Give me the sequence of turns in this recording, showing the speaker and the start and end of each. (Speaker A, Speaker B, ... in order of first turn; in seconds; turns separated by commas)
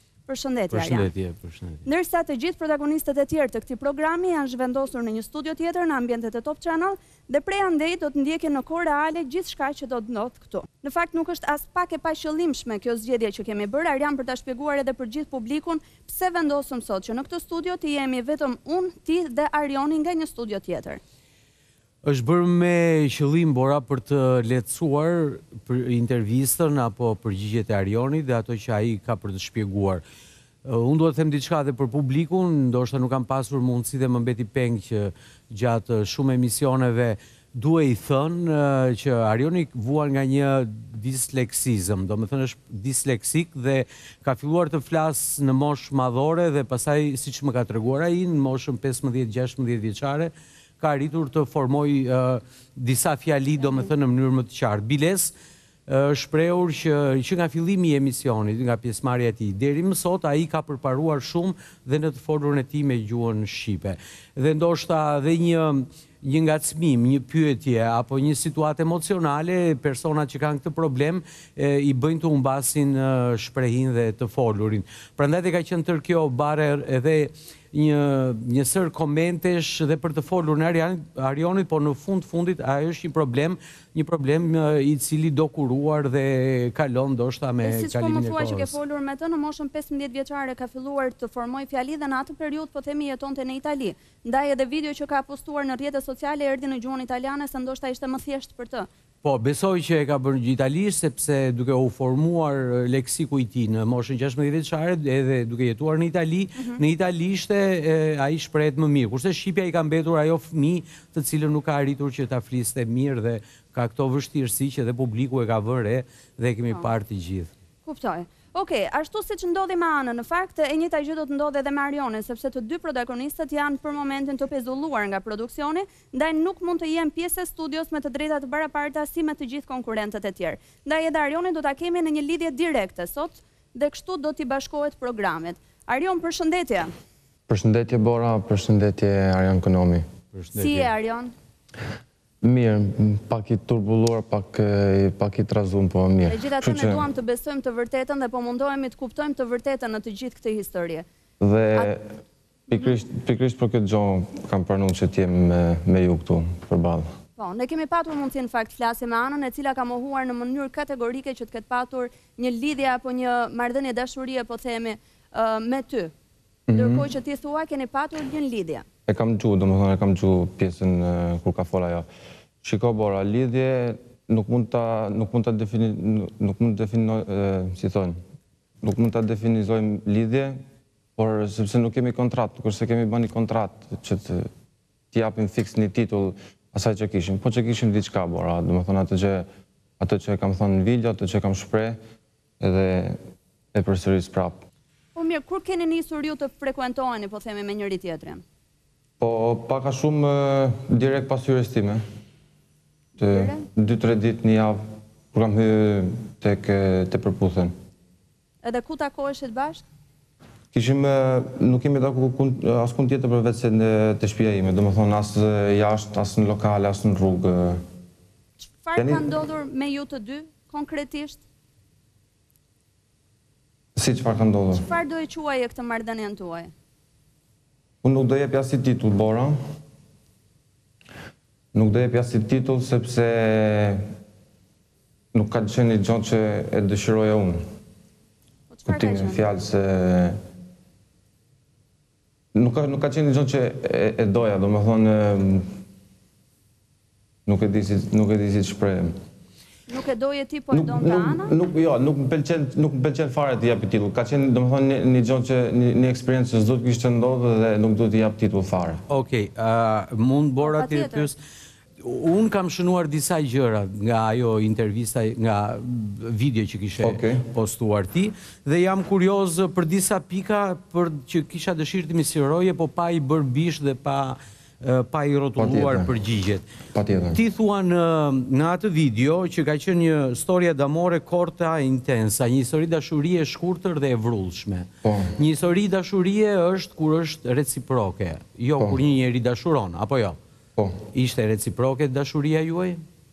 Speaker A: 0.3-1.1, Speaker B: 0.7-1.9, Speaker A: 1.8-21.0, Speaker B: 22.0-30.0, Speaker B: 30.6-55.3, Speaker B: 55.9-88.8, Speaker A: 87.6-98.9, Speaker B: 99.2-117.5, Speaker A: 117.8-136.9, Speaker C: 137.5-140.1, Speaker B: 140.3-140.9, Speaker A: 140.5-141.3, Speaker C: 142.4-147.0, Speaker A: 146.3-151.1, Speaker C: 151.4-152.1, Speaker C: 152.7-157.1, Speaker A: 157.4-166.1, Speaker C: 166.7-167.1, Speaker A: 166.7-168.8, Speaker C: 169.1-172.1, Speaker C: 172.6-178.2, Speaker C: 178.8-180.6, Speaker C: 181.2-184.5, Speaker C: 185.1-189.5, Speaker C: 190.0-192.0, Speaker C: 192.6-193.2, Speaker C: 193.7-194.6, Speaker A: 195.2-198.4, Speaker C: 199.2-202.0, Speaker C: 203.2-207.7, Speaker A: 203.3-203.6, Speaker A: 208.6-209.8, Speaker C: 210.7-217.8, Speaker A: 218.6-221.4, Speaker C: 218.9-219.3, Speaker C: 223.9-224.8, Speaker A: 224.7-226.7, Speaker C: 228.0-229.5, Speaker C: 231.7-234.0, Speaker C: 235.3-237.6, Speaker A: 238.7-239.4, Speaker C: 238.8-240.4, Speaker C: 242.5-245.7, Speaker C: 247.4-249.1, Speaker A: 249.9-251.5, Speaker C: 250.7-259.0, Speaker B: 259.1-261.4, Speaker A: 260.6-261.3, Speaker B: 262.0-276.6, Speaker C: 267.0-267.4, Speaker C: 275.6-276.1, Speaker C: 276.9-277.4, Speaker B: 277.3-290.4, Speaker C: 285.0-285.3, Speaker B: 291.1-293.0